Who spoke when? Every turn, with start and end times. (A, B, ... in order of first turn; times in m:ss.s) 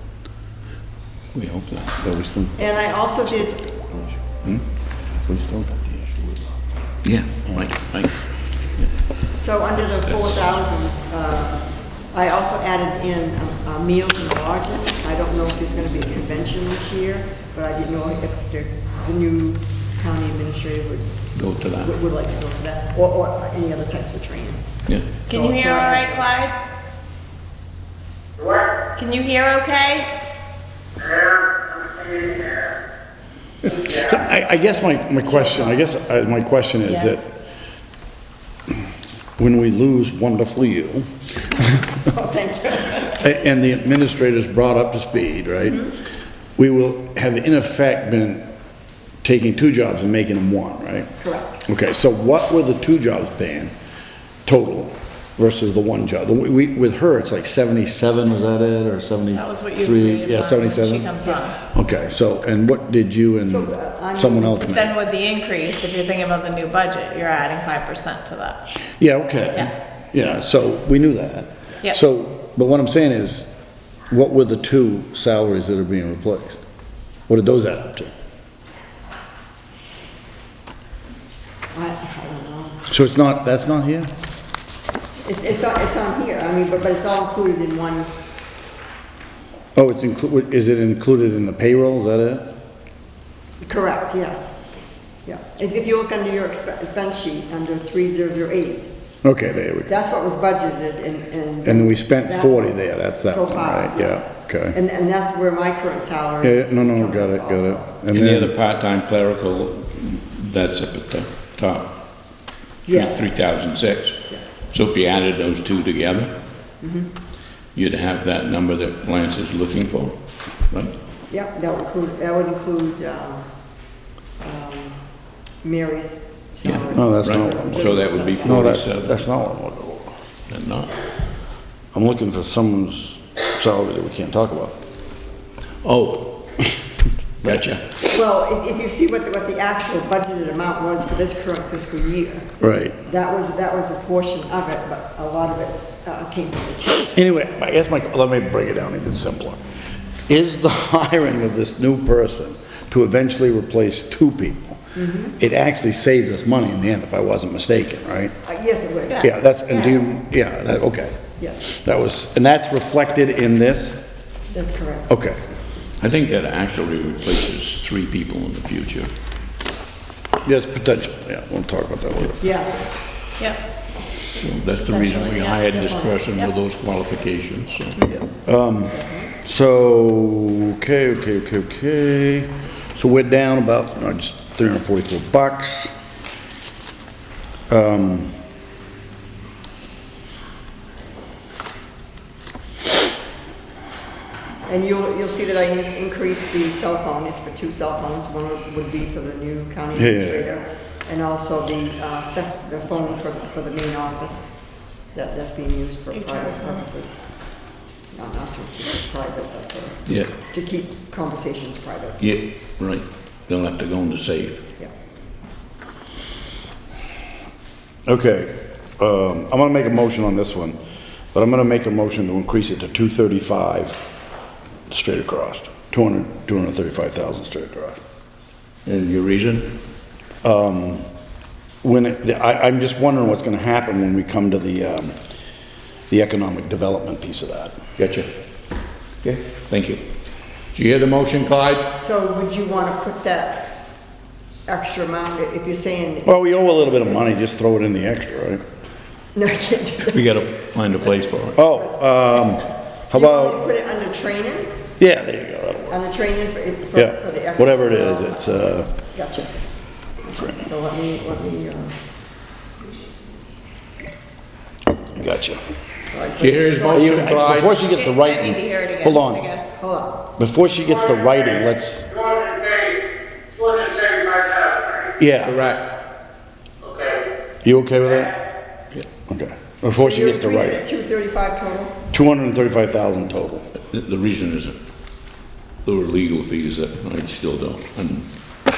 0:01.3-0:02.0 A
0:02.0-0:02.6 B
0:02.6-0:04.0 C
0:05.2-0:06.6 B
0:07.0-0:08.9 A
0:09.3-0:21.2 C
0:09.9-0:10.6 A
0:21.3-0:21.9 A
0:21.8-0:24.7 C
0:24.9-0:25.2 A
0:25.3-0:26.6 D
0:25.3-0:26.3 C
0:28.8-0:30.1 D
0:32.0-0:32.7 E
0:33.7-0:37.3 B
0:35.4-0:35.7 C
0:36.8-0:37.1 D
0:39.4-0:41.8 B
0:42.0-0:43.1 C
0:43.0-0:46.0 B
0:46.6-0:48.5 B
0:49.2-0:51.1 B
0:51.2-0:51.6 C
0:51.6-0:53.7 B
0:54.4-1:05.0 B
0:59.3-1:01.6 D
1:03.5-1:04.6 C
1:04.6-1:08.7 D
1:09.0-1:13.5 B
1:14.1-1:16.6 B
1:17.3-1:18.1 B
1:21.7-1:22.8 C
1:22.9-1:24.1 B
1:25.2-1:28.1 C
1:29.8-1:32.5 B
1:33.6-1:34.6 C
1:35.2-1:38.9 C
1:39.2-1:39.9 B
1:39.9-1:47.9 C
1:41.6-1:44.8 B
1:46.4-1:48.5 B
1:48.1-1:52.0 A
1:52.9-1:53.3 C
1:52.9-1:56.3 A
1:56.8-1:57.1 C
1:57.8-2:00.2 A
2:00.7-2:00.9 A
2:01.3-2:03.5 C
2:04.4-2:05.0 C
2:05.6-2:08.7 C
2:06.6-2:09.2 A
2:06.9-2:10.2 B
2:10.5-2:11.0 A
2:11.9-2:14.8 B
2:15.8-2:16.4 A
2:17.4-2:17.7 B
2:17.4-2:18.0 A
2:18.1-2:22.5 C
2:22.6-2:23.0 B
2:23.1-2:27.5 C
2:27.1-2:29.6 B
2:30.3-2:38.4 B
2:34.9-2:35.3 C
2:38.4-2:39.2 C
2:39.1-2:40.0 D
2:39.2-2:44.0 B
2:41.4-2:41.7 C
2:44.5-2:45.1 C
2:45.1-2:45.4 B
2:46.0-2:49.1 A
2:50.4-2:52.5 B
2:52.4-2:52.9 C
2:54.3-2:58.0 A
2:55.1-2:55.6 D
2:55.8-2:56.1 C
2:58.3-3:05.9 B
2:58.9-2:59.3 C
3:07.7-3:08.4 B
3:14.7-3:24.5 C
3:20.0-3:20.6 B
3:25.1-3:27.2 C
3:26.2-3:26.8 D
3:28.1-3:32.2 C
3:32.2-3:34.6 A
3:38.1-3:40.8 B
3:41.3-3:44.0 B
3:44.9-3:48.0 B
3:48.9-3:49.8 A
3:50.4-3:51.1 B
3:51.8-3:55.2 B
3:56.1-3:57.8 B
3:58.0-3:58.3 A
3:59.2-4:00.0 A
4:00.7-4:02.0 A
4:02.0-4:03.8 C
4:04.7-4:07.3 C
4:06.2-4:08.6 B
4:09.3-4:10.2 C
4:10.1-4:11.6 A
4:11.6-4:13.6 B
4:13.1-4:14.8 C
4:15.0-4:16.0 B
4:15.9-4:18.4 C
4:16.9-4:18.9 B
4:19.1-4:19.6 C
4:20.2-4:22.0 C
4:25.1-4:25.6 B
4:26.1-4:27.1 C
4:26.4-4:27.9 A
4:26.9-4:29.5 B
4:27.9-4:29.8 D
4:29.8-4:30.3 C
4:30.4-4:32.4 B
4:32.4-4:33.0 E
4:33.6-4:35.0 E
4:35.2-4:35.6 B
4:35.4-4:35.9 A
4:37.6-4:38.4 B
4:39.3-4:40.8 B
4:40.0-4:42.0 C
4:42.1-4:43.7 B
4:43.8-4:44.8 A
4:45.8-4:48.3 A